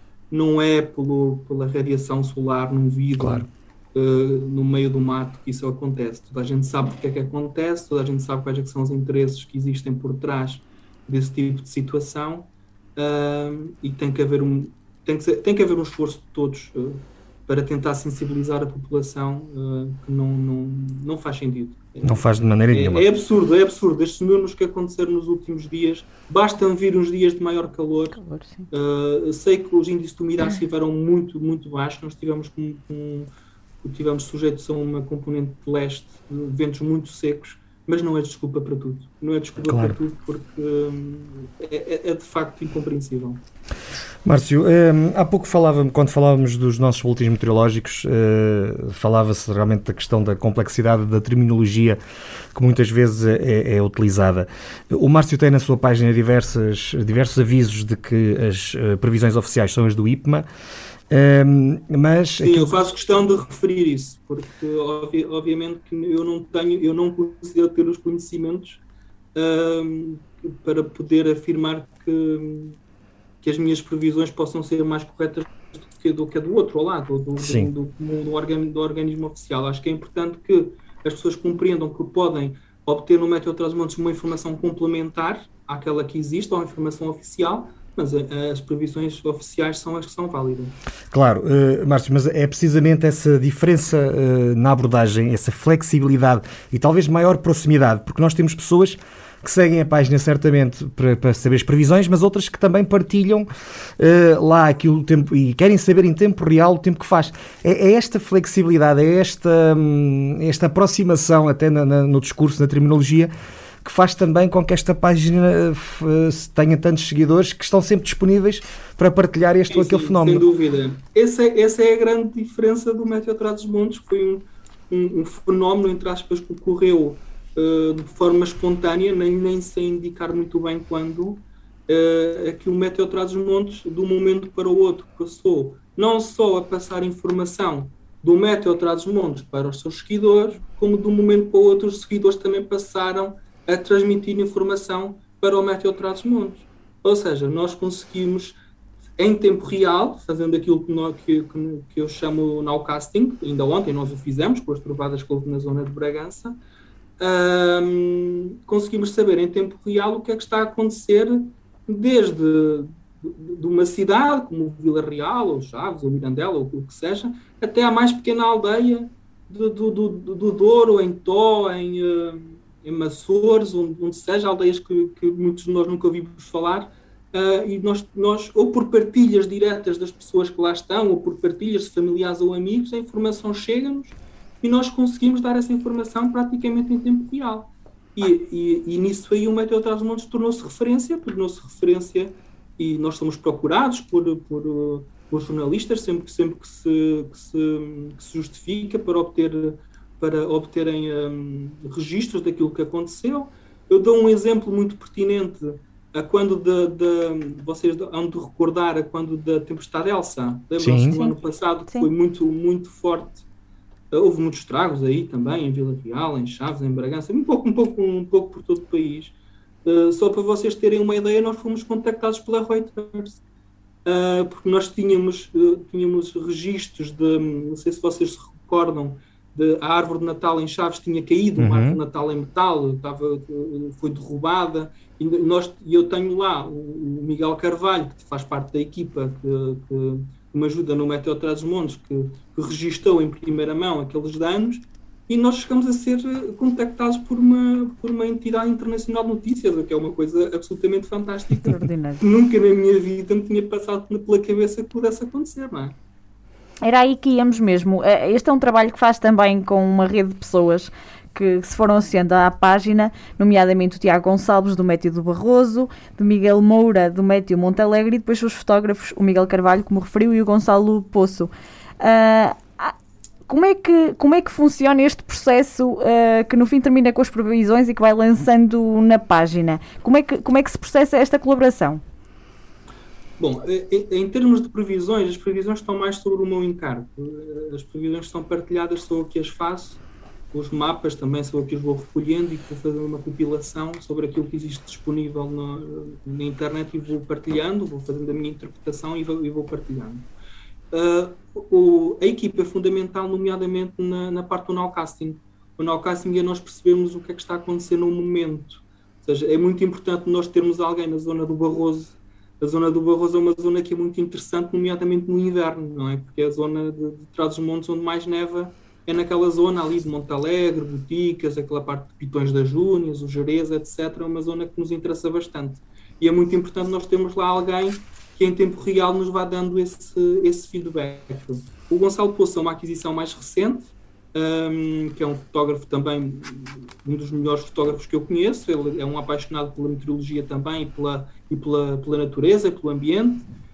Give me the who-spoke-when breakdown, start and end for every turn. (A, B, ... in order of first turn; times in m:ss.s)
0:00.3-0:28.2 A
0:03.2-0:03.4 B
0:22.0-0:23.0 B
0:28.1-0:28.6 C
0:28.7-0:33.3 A
0:33.8-0:43.4 A
0:39.6-0:40.0 B
0:44.2-0:52.0 B
0:52.5-1:00.4 B
1:01.1-1:02.7 B
1:02.4-1:08.8 A
1:09.3-1:12.8 A
1:13.4-1:30.8 A
1:17.4-1:17.7 B
1:31.1-1:43.5 B
1:44.0-1:53.3 B
1:53.8-2:00.4 B
1:59.7-2:28.6 A
2:29.2-2:36.6 A
2:37.2-3:33.4 A
3:30.8-3:31.2 B
3:31.1-3:32.1 C
3:34.1-3:43.4 A
3:44.0-4:16.0 A
3:51.6-3:52.0 B
4:11.6-4:12.2 C
4:16.8-4:32.9 C
4:33.5-4:42.0 C
4:43.4-4:50.0 A
4:50.5-5:00.3 A
5:00.9-5:43.5 A